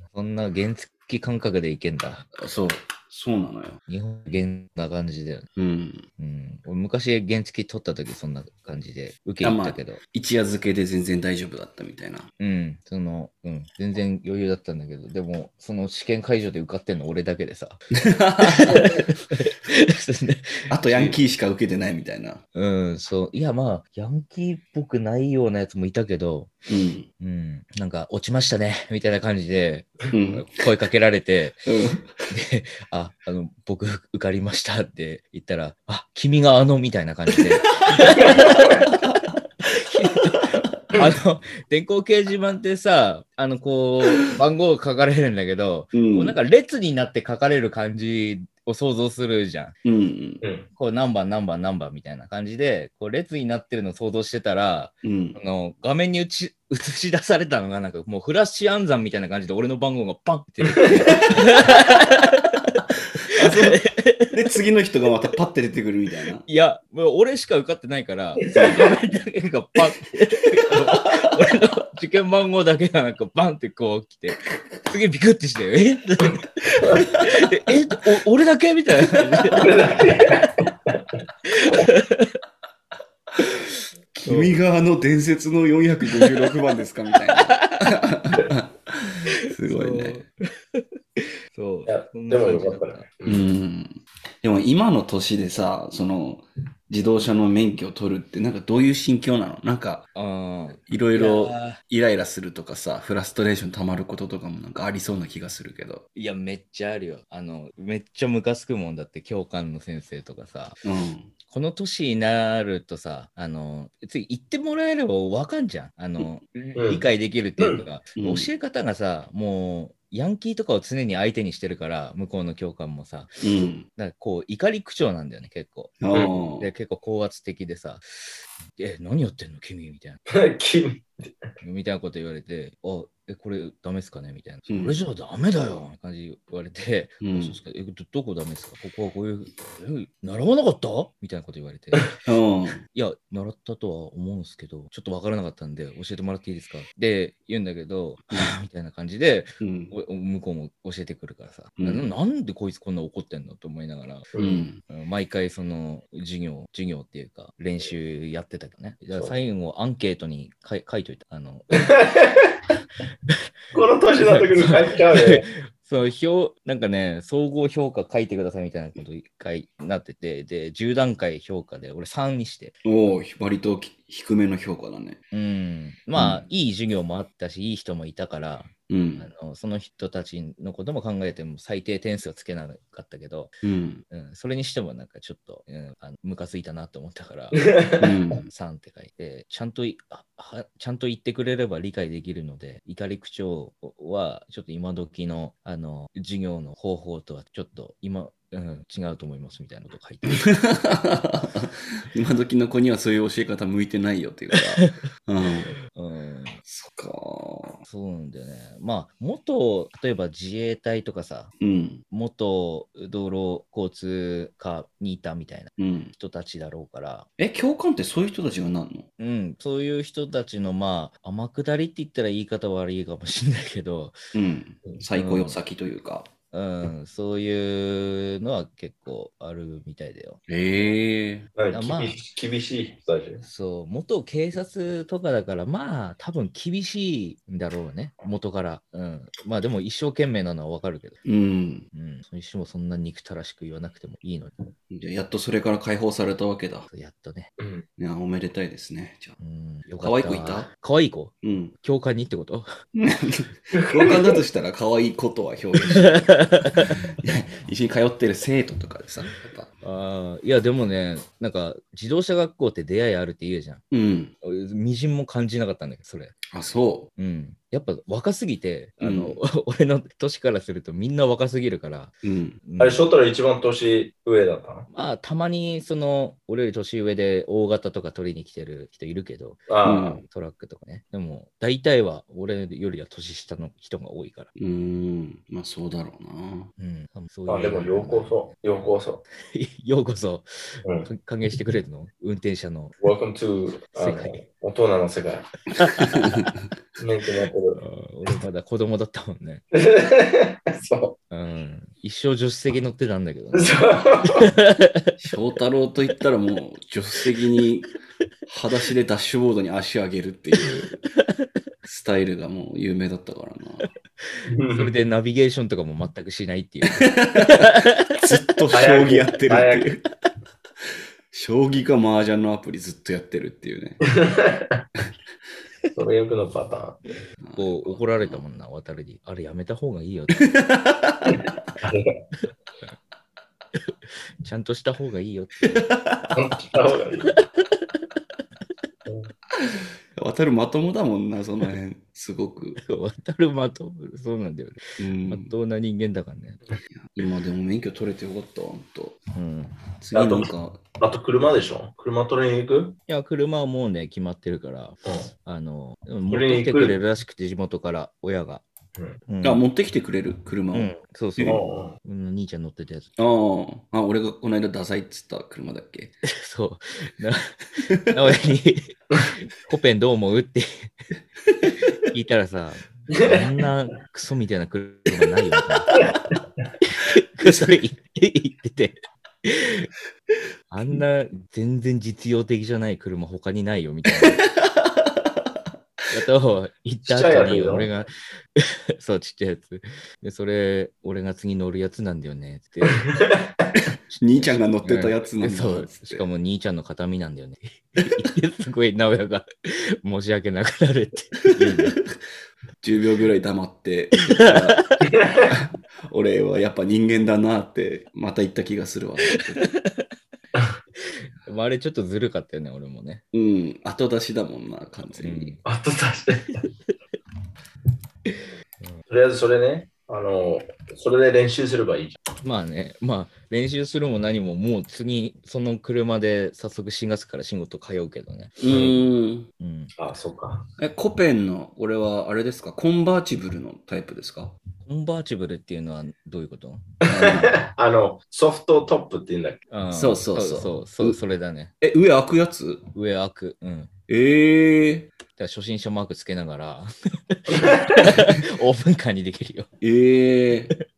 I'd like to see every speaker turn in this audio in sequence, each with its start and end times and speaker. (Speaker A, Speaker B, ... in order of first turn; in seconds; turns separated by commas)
Speaker A: 0.1-2.3, Speaker B: 2.4-3.8, Speaker A: 3.9-5.5, Speaker B: 5.5-6.0, Speaker A: 6.2-10.0, Speaker B: 9.4-12.3, Speaker A: 12.4-17.8, Speaker B: 18.0-19.0, Speaker A: 18.4-21.2, Speaker B: 20.7-22.4, Speaker A: 22.5-26.5, Speaker B: 26.7-27.1, Speaker A: 27.2-31.6, Speaker B: 30.1-30.7, Speaker B: 31.6-32.1, Speaker A: 32.3-38.9, Speaker B: 37.6-39.4, Speaker A: 39.6-49.8, Speaker B: 45.9-46.4, Speaker B: 49.8-50.4, Speaker A: 50.7-64.4, Speaker B: 55.0-55.4, Speaker C: 60.6-61.0, Speaker B: 61.1-61.5, Speaker B: 63.3-66.4, Speaker A: 66.5-79.7, Speaker C: 68.4-68.8, Speaker B: 68.5-68.8, Speaker C: 79.5-81.0, Speaker A: 81.5-82.3, Speaker B: 84.1-90.2, Speaker A: 84.2-84.6, Speaker A: 87.3-87.9, Speaker A: 89.6-93.1, Speaker C: 91.8-93.5, Speaker B: 93.2-100.0, Speaker A: 100.1-101.8, Speaker B: 100.9-106.0, Speaker A: 106.1-110.8, Speaker B: 110.8-111.3, Speaker A: 111.5-130.2, Speaker C: 116.8-117.0, Speaker B: 118.2-118.5, Speaker B: 123.4-123.8, Speaker B: 126.0-126.7, Speaker C: 130.3-131.5, Speaker A: 131.6-142.1, Speaker B: 134.7-134.9, Speaker B: 137.2-137.6, Speaker B: 142.2-142.8, Speaker A: 142.9-154.3, Speaker B: 149.6-149.9, Speaker B: 151.8-152.1, Speaker C: 154.3-154.6, Speaker B: 154.4-154.8, Speaker A: 154.8-161.9, Speaker C: 161.8-162.5, Speaker C: 163.7-165.4, Speaker A: 164.2-172.8, Speaker B: 172.8-175.2, Speaker A: 175.3-183.6, Speaker B: 176.2-176.4, Speaker B: 178.9-179.3, Speaker B: 183.6-184.0, Speaker A: 184.1-187.7, Speaker C: 187.6-188.1, Speaker B: 188.0-188.4, Speaker A: 188.4-200.5, Speaker B: 200.3-205.7, Speaker A: 205.9-206.6, Speaker B: 206.7-207.8, Speaker A: 207.9-211.5, Speaker B: 211.6-212.0, Speaker A: 212.1-217.3, Speaker B: 215.8-216.1, Speaker B: 217.4-219.1, Speaker A: 219.2-224.2, Speaker B: 224.3-226.3, Speaker A: 225.2-225.6, Speaker A: 226.5-230.4, Speaker B: 230.5-231.5, Speaker C: 231.6-233.4, Speaker A: 231.7-232.2, Speaker A: 233.4-241.2, Speaker B: 241.2-241.8, Speaker A: 241.9-244.5, Speaker B: 244.9-246.9, Speaker A: 246.9-247.5, Speaker C: 247.6-247.8, Speaker B: 248.0-249.3, Speaker A: 249.4-252.7, Speaker B: 250.0-250.7, Speaker B: 251.4-251.7, Speaker B: 252.9-259.7, Speaker C: 253.8-254.3, Speaker A: 255.9-257.0, Speaker A: 259.8-263.8, Speaker B: 263.9-264.3, Speaker A: 264.4-266.4, Speaker B: 266.5-267.1, Speaker A: 267.1-272.1, Speaker B: 269.0-269.4, Speaker B: 272.2-272.6, Speaker A: 272.7-273.0, Speaker C: 272.8-274.9, Speaker A: 274.9-279.7, Speaker C: 279.7-280.2, Speaker B: 279.8-280.2, Speaker A: 280.2-284.5, Speaker B: 284.6-286.7, Speaker A: 286.8-288.4, Speaker C: 287.5-289.2, Speaker A: 289.4-293.0, Speaker C: 293.0-295.5, Speaker A: 294.0-294.4, Speaker A: 295.8-296.2, Speaker B: 296.0-296.5, Speaker C: 297.0-297.8, Speaker A: 297.8-299.6, Speaker C: 299.7-301.2, Speaker A: 301.3-305.1, Speaker C: 303.5-304.5, Speaker B: 305.2-307.9, Speaker B: 308.5-311.0, Speaker B: 311.8-313.9, Speaker C: 314.5-314.9, Speaker A: 314.6-318.2, Speaker B: 317.0-320.0, Speaker C: 318.7-319.9, Speaker B: 321.3-324.0, Speaker C: 324.0-324.8, Speaker C: 325.9-327.0, Speaker B: 327.4-328.4, Speaker A: 327.6-330.4, Speaker B: 330.4-331.5, Speaker C: 331.8-332.2, Speaker A: 334.4-335.8, Speaker B: 335.6-336.3, Speaker C: 336.3-337.3, Speaker A: 337.2-338.0, Speaker B: 339.6-342.8, Speaker A: 342.8-346.6, Speaker B: 345.0-345.5, Speaker B: 346.9-349.2, Speaker A: 349.3-349.7, Speaker B: 350.0-350.8, Speaker C: 350.1-352.9, Speaker A: 353.1-358.6, Speaker C: 355.1-355.3, Speaker C: 356.3-357.0, Speaker A: 359.3-359.6, Speaker B: 359.4-361.6, Speaker A: 360.7-363.1, Speaker C: 361.4-361.9, Speaker B: 363.2-366.1, Speaker A: 366.2-369.0, Speaker A: 369.6-370.9, Speaker A: 372.1-376.0, Speaker C: 373.1-373.4, Speaker A: 376.8-379.9, Speaker B: 377.4-377.7, Speaker A: 380.7-384.4, Speaker B: 384.2-385.5, Speaker A: 386.1-393.1, Speaker C: 387.0-387.9, Speaker C: 393.0-393.4, Speaker A: 394.1-402.0, Speaker B: 394.2-396.2, Speaker B: 402.8-409.7, Speaker A: 404.3-405.0, Speaker C: 405.1-405.5, Speaker A: 409.6-410.0, Speaker A: 411.1-413.2, Speaker B: 413.3-415.6, Speaker A: 415.2-415.6, Speaker C: 415.6-416.6, Speaker C: 419.1-422.2, Speaker A: 422.4-428.6, Speaker B: 428.6-429.5, Speaker C: 428.7-428.9, Speaker A: 429.6-429.9, Speaker C: 430.0-430.7, Speaker B: 430.8-434.5, Speaker A: 434.8-436.9, Speaker C: 437.0-439.6, Speaker B: 437.1-437.6, Speaker A: 439.7-441.7, Speaker B: 439.9-441.2, Speaker B: 441.8-442.8, Speaker A: 442.9-443.9, Speaker B: 444.1-445.1, Speaker A: 445.4-449.7, Speaker C: 447.5-448.1, Speaker B: 449.8-450.7